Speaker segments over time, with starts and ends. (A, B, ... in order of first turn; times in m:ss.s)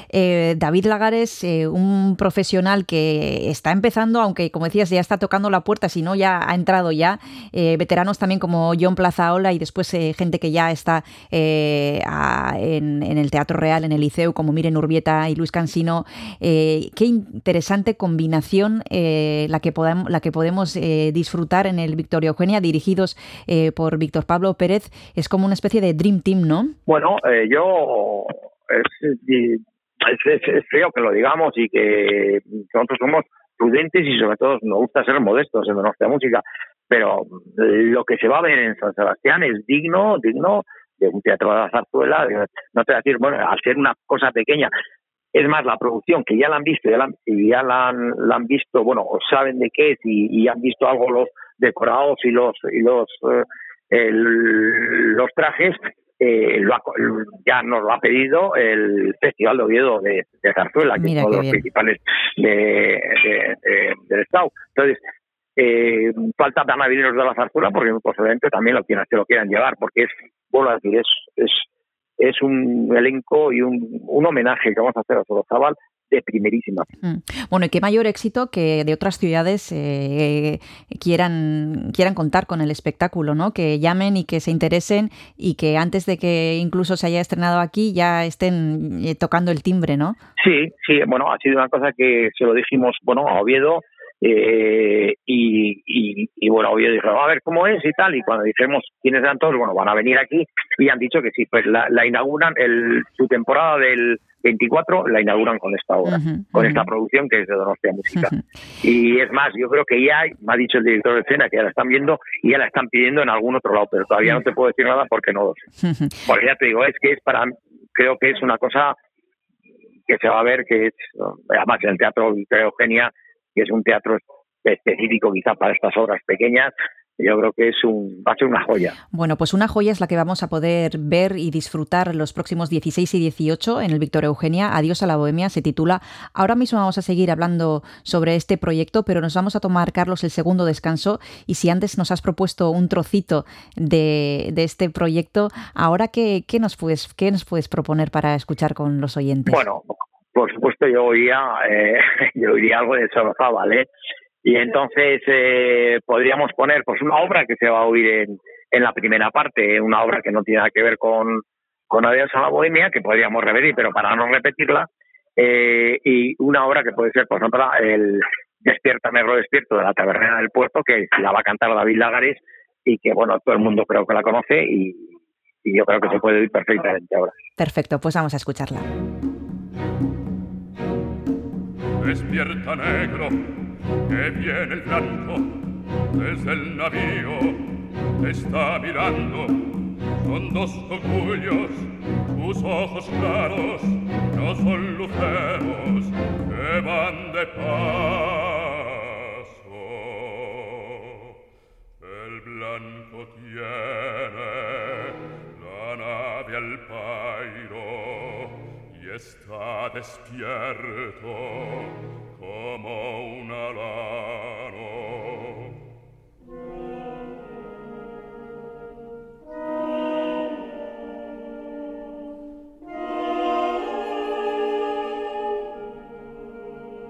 0:00.1-0:26.8 A
0:26.9-0:44.7 B
0:45.3-1:05.0 B
1:01.0-1:01.6 A
1:05.6-1:11.6 B
1:12.2-1:16.9 B
1:17.0-1:30.2 A
1:30.4-1:55.6 B
1:46.1-1:46.9 A
1:55.8-1:56.2 A
1:56.3-1:59.0 B
2:00.1-2:09.0 B
2:09.1-2:29.6 A
2:29.5-2:33.9 B
2:34.4-2:55.1 B
2:55.6-2:57.3 B
2:57.6-2:58.9 A
3:02.0-3:03.4 C
3:04.1-3:05.5 C
3:06.2-3:07.6 C
3:08.2-3:09.6 C
3:10.2-3:21.2 C
3:22.0-3:35.7 C